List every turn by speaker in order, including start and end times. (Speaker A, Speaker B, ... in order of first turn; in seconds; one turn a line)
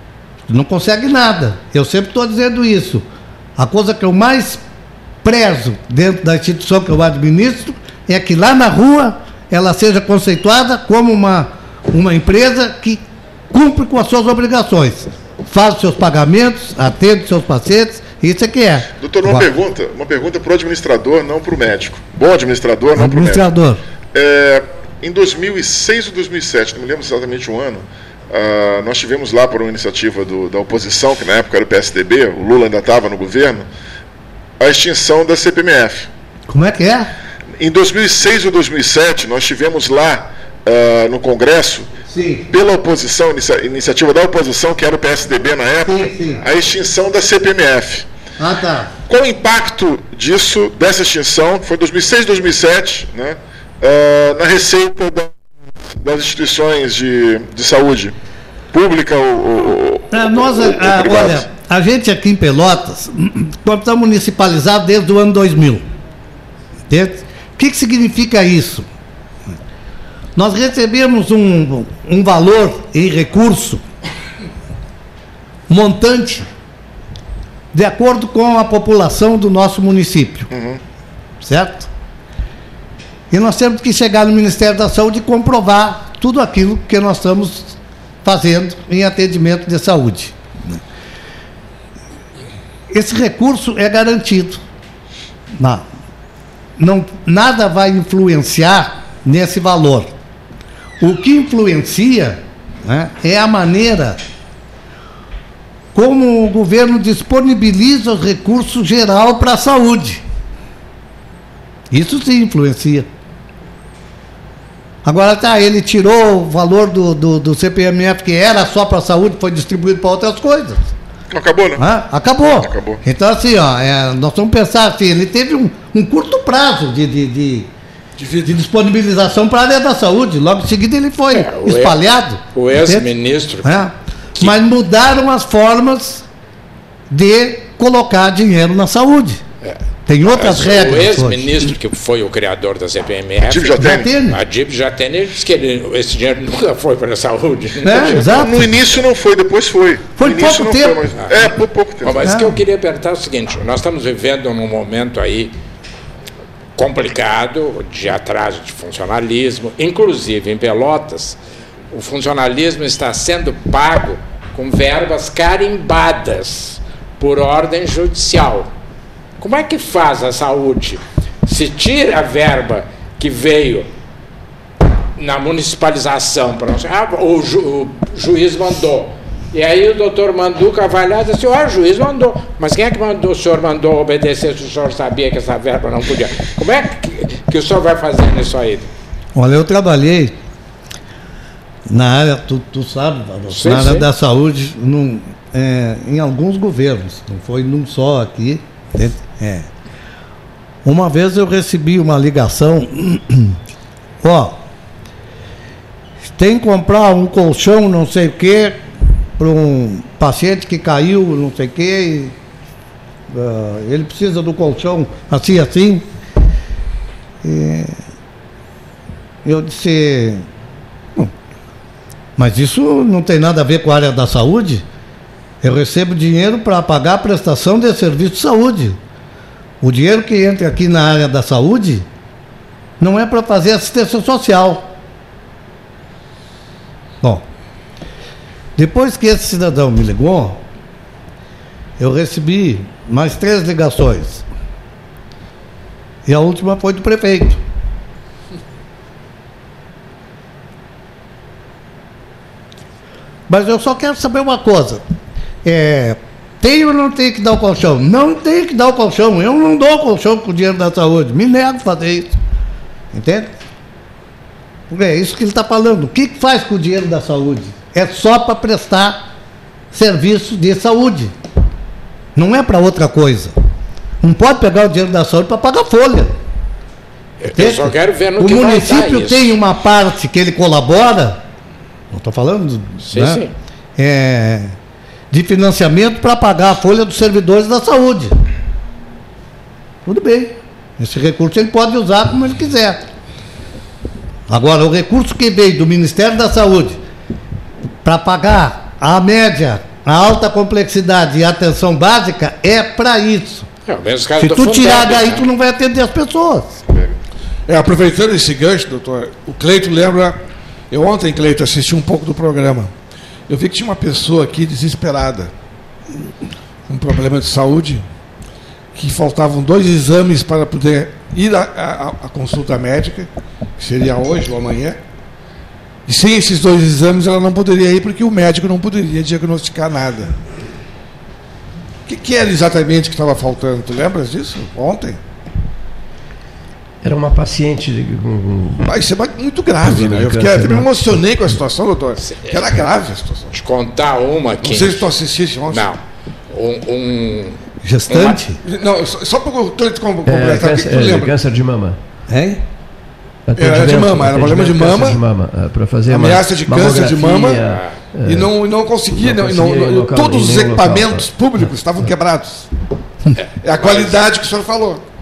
Speaker A: 0.5-3.0
Speaker A: 3.6-4.6
Speaker A: 5.2-19.5
Speaker B: 18.9-23.5
Speaker A: 22.9-23.8
Speaker B: 24.1-33.7
Speaker B: 34.6-36.1
Speaker A: 36.5-37.1
Speaker B: 37.6-41.9
Speaker A: 42.1-42.5
Speaker B: 42.5-48.1
Speaker A: 45.8-46.4
Speaker A: 48.4-48.9
Speaker B: 49.0-55.3
Speaker B: 56.0-58.1
Speaker B: 58.7-61.5
Speaker A: 60.1-65.8
Speaker A: 66.9-68.9
Speaker A: 70.4-73.8
Speaker A: 75.7-76.5
Speaker A: 77.7-80.5
Speaker B: 80.5-80.8
Speaker A: 81.4-81.9
Speaker A: 83.3-90.8
Speaker A: 92.9-94.6
Speaker A: 95.5-95.8
Speaker A: 96.8-100.1
Speaker A: 101.0-104.2
Speaker A: 105.9-110.2
Speaker A: 111.9-113.1
Speaker A: 115.0-120.8
Speaker B: 121.3-121.8
Speaker A: 121.8-127.7
Speaker B: 122.4-123.0
Speaker A: 128.4-133.1
Speaker C: 131.3-132.0
Speaker C: 132.6-133.9
Speaker A: 133.6-136.2
Speaker A: 137.1-139.4
Speaker C: 139.6-148.5
Speaker A: 140.1-141.7
Speaker B: 143.5-144.1
Speaker A: 143.7-144.4
Speaker A: 147.8-148.7
Speaker B: 148.1-152.3
Speaker A: 150.2-151.1
Speaker C: 151.2-151.5
Speaker C: 152.0-155.5
Speaker A: 152.2-152.6
Speaker C: 156.8-161.4
Speaker C: 161.9-168.7
Speaker C: 169.4-173.9
Speaker C: 175.2-188.9
Speaker A: 189.3-190.4
Speaker A: 191.9-199.7
Speaker C: 193.5-194.1
Speaker A: 200.8-203.6
Speaker A: 204.2-204.6
Speaker A: 206.3-208.8
Speaker A: 209.4-212.3
Speaker A: 213.3-216.1
Speaker A: 217.4-218.0
Speaker A: 219.4-220.4
Speaker A: 222.4-224.8
Speaker A: 225.6-229.0
Speaker A: 229.8-232.1
Speaker A: 233.0-234.9
Speaker A: 238.8-240.6
Speaker A: 242.0-244.4
Speaker A: 246.3-247.6
Speaker A: 253.5-255.1
Speaker A: 255.6-262.4
Speaker A: 263.1-263.5
Speaker A: 264.9-269.2
Speaker A: 269.9-271.3
Speaker A: 272.3-273.5
Speaker A: 274.2-276.3
Speaker C: 277.4-279.5
Speaker A: 277.6-281.4
Speaker A: 282.1-283.4
Speaker C: 283.1-283.5
Speaker A: 284.0-284.8
Speaker A: 285.3-288.3
Speaker A: 290.1-293.0
Speaker A: 294.5-297.0
Speaker A: 298.0-303.7
Speaker C: 303.9-305.4
Speaker A: 304.4-306.7
Speaker B: 306.9-307.1
Speaker D: 307.7-310.4
Speaker D: 310.9-312.9
Speaker D: 313.5-315.5
Speaker D: 316.9-318.1
Speaker D: 318.9-325.0
Speaker D: 326.1-330.4
Speaker D: 332.1-335.2
Speaker E: 337.0-338.9
Speaker D: 338.8-343.5
Speaker E: 339.8-340.9
Speaker C: 342.2-342.6
Speaker C: 343.5-345.1
Speaker D: 344.6-345.9
Speaker C: 345.7-348.4
Speaker A: 347.8-348.6
Speaker D: 348.6-351.3
Speaker E: 350.3-352.0
Speaker A: 352.3-352.6
Speaker E: 353.5-358.5
Speaker D: 353.6-355.2
Speaker D: 356.1-357.6
Speaker C: 357.6-358.0
Speaker D: 358.2-362.7
Speaker E: 359.1-361.3
Speaker C: 363.4-364.2
Speaker D: 363.6-365.0